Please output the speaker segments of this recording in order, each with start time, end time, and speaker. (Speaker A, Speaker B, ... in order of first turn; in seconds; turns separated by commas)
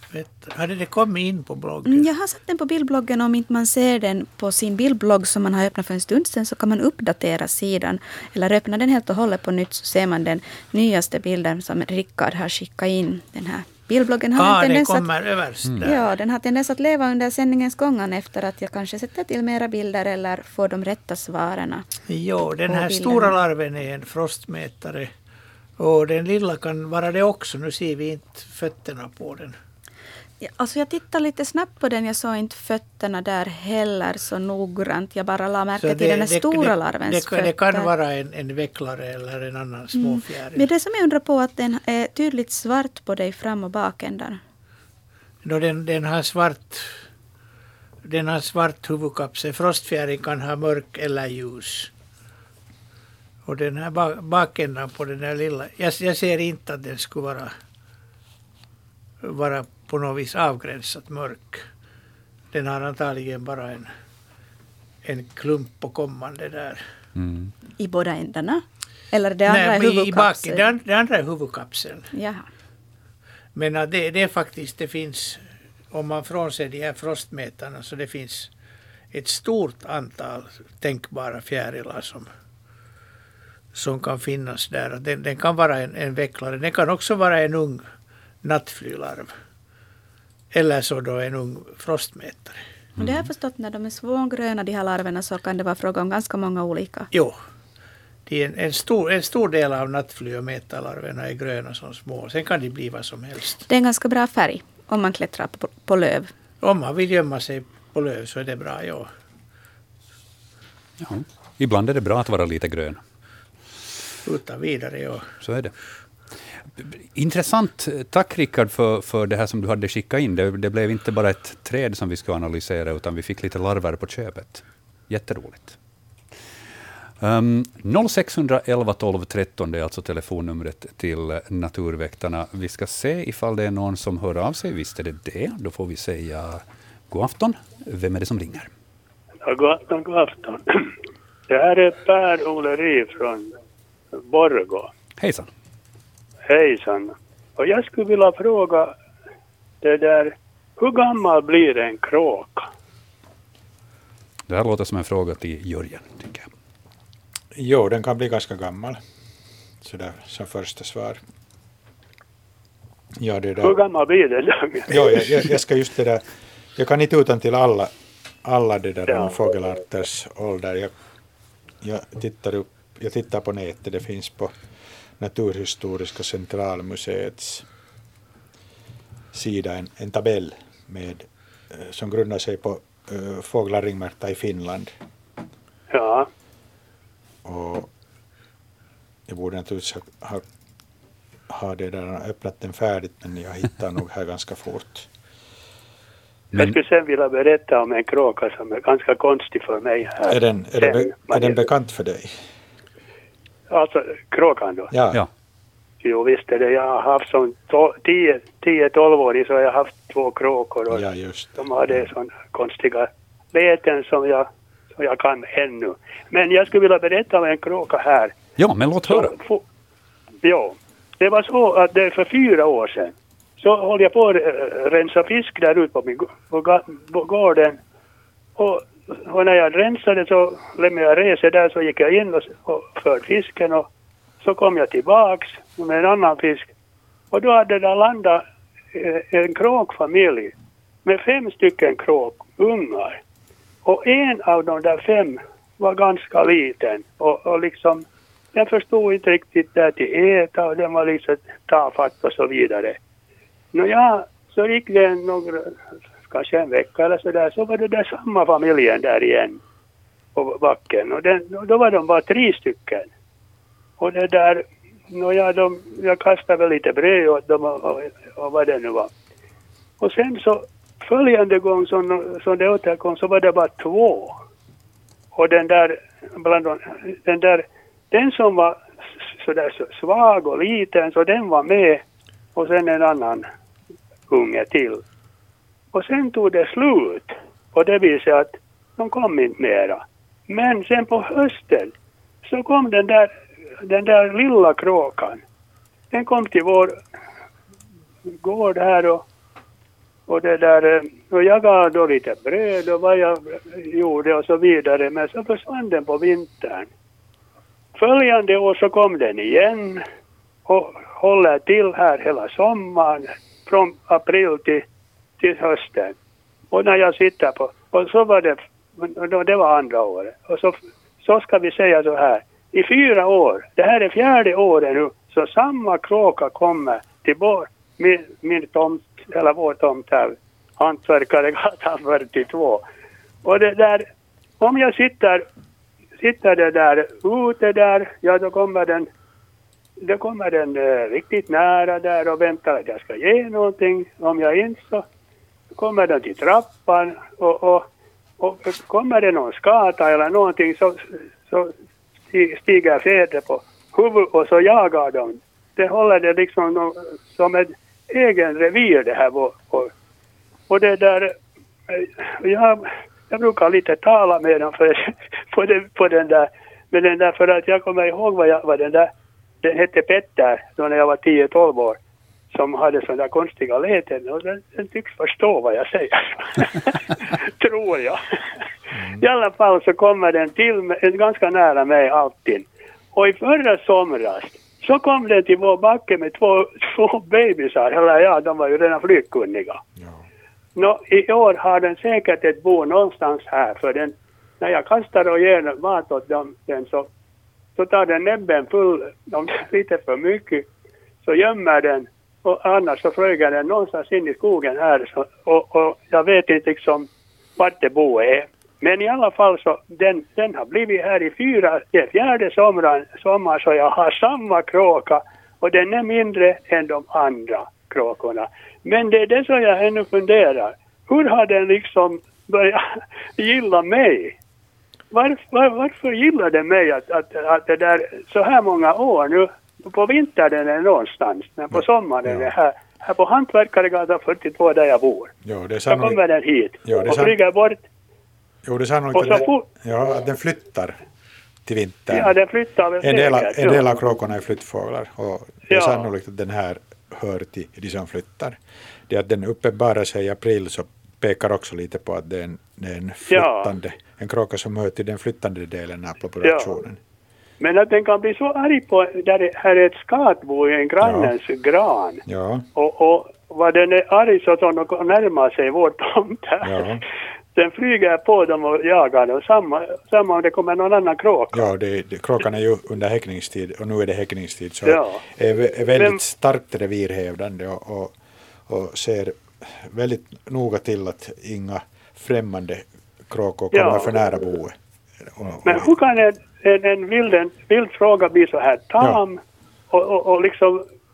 Speaker A: 0.1-2.1, Speaker B: 1.9-15.1, Speaker A: 14.3-16.1, Speaker B: 15.8-21.9, Speaker A: 22.1-25.1, Speaker B: 22.7-23.4, Speaker A: 25.8-29.6, Speaker B: 30.4-37.9, Speaker A: 35.8-40.6, Speaker B: 39.9-44.4, Speaker A: 45.4-46.9, Speaker A: 48.0-51.9, Speaker A: 53.5-57.5, Speaker A: 59.2-61.6, Speaker A: 62.5-63.9, Speaker A: 65.0-66.8, Speaker C: 67.2-67.5, Speaker B: 67.8-70.7, Speaker A: 69.5-72.1, Speaker B: 72.1-72.5, Speaker A: 73.5-78.5, Speaker A: 79.1-82.3, Speaker A: 83.7-87.8, Speaker A: 88.4-89.3, Speaker A: 90.5-92.6, Speaker C: 93.0-93.2, Speaker B: 93.0-97.1, Speaker A: 97.1-97.4, Speaker A: 98.3-103.6, Speaker B: 103.7-106.3, Speaker A: 106.6-109.1, Speaker C: 111.0-113.0, Speaker A: 114.2-115.2, Speaker C: 115.4-115.7, Speaker C: 116.8-125.8, Speaker C: 127.2-138.7, Speaker D: 139.4-140.9, Speaker D: 141.5-143.5, Speaker D: 144.1-144.9, Speaker C: 145.2-145.5, Speaker D: 146.5-148.9, Speaker D: 149.8-152.7, Speaker C: 154.5-156.5, Speaker E: 157.5-159.0, Speaker E: 159.8-161.2, Speaker E: 163.2-163.8, Speaker D: 163.6-165.5, Speaker E: 164.9-166.2, Speaker E: 166.8-167.9, Speaker E: 168.4-170.9, Speaker E: 171.8-174.5, Speaker E: 175.2-177.7, Speaker E: 179.3-184.9, Speaker D: 185.9-186.3, Speaker E: 187.4-187.9, Speaker E: 189.3-190.4, Speaker E: 191.5-195.1, Speaker C: 196.5-196.8, Speaker D: 196.5-201.6, Speaker E: 200.3-202.4, Speaker D: 203.7-204.9, Speaker E: 204.9-205.2, Speaker D: 206.0-211.0, Speaker E: 210.9-212.1, Speaker D: 211.6-218.3, Speaker C: 218.6-219.3, Speaker D: 219.1-219.6, Speaker D: 220.4-227.8, Speaker D: 228.6-233.8, Speaker D: 234.4-236.7, Speaker D: 237.3-238.4, Speaker D: 238.9-240.5, Speaker D: 241.0-243.2, Speaker D: 243.8-253.0, Speaker D: 253.7-255.7, Speaker D: 256.3-259.6, Speaker D: 260.3-263.1, Speaker D: 264.0-269.1, Speaker D: 270.0-274.4, Speaker D: 275.3-282.0, Speaker D: 282.6-283.5, Speaker D: 284.3-285.0, Speaker D: 285.9-291.9, Speaker D: 292.4-293.3, Speaker D: 293.8-295.4, Speaker D: 296.1-296.9, Speaker D: 298.4-299.2, Speaker D: 300.3-306.9, Speaker D: 307.9-310.0, Speaker D: 310.6-314.8, Speaker D: 315.4-316.1, Speaker D: 316.7-332.8, Speaker D: 333.4-334.0, Speaker D: 334.6-335.4, Speaker D: 336.2-339.1, Speaker D: 340.0-345.0, Speaker D: 345.7-347.9, Speaker D: 348.4-351.7, Speaker D: 352.3-359.9, Speaker D: 360.7-361.3, Speaker D: 361.9-369.1, Speaker D: 369.6-372.0, Speaker D: 372.5-378.2, Speaker E: 378.9-379.2, Speaker D: 379.2-389.8, Speaker E: 390.0-390.2, Speaker D: 390.8-397.1, Speaker D: 397.8-400.6, Speaker D: 401.2-424.3, Speaker D: 425.1-435.3, Speaker E: 431.7-432.5, Speaker E: 435.4-436.2, Speaker D: 435.9-437.8, Speaker E: 436.8-437.4, Speaker E: 438.6-441.0, Speaker D: 439.1-439.6, Speaker E: 441.6-442.3, Speaker D: 442.1-443.9, Speaker E: 443.0-457.0, Speaker D: 445.7-446.1, Speaker D: 453.3-453.7, Speaker D: 456.4-456.7, Speaker D: 457.6-462.2, Speaker E: 461.0-461.3, Speaker E: 462.2-462.6, Speaker D: 462.8-466.9, Speaker E: 466.6-467.0, Speaker D: 467.5-471.6, Speaker E: 471.5-478.1, Speaker D: 474.9-475.2, Speaker E: 478.7-485.9, Speaker D: 483.7-484.1, Speaker D: 485.6-489.4, Speaker D: 489.9-490.8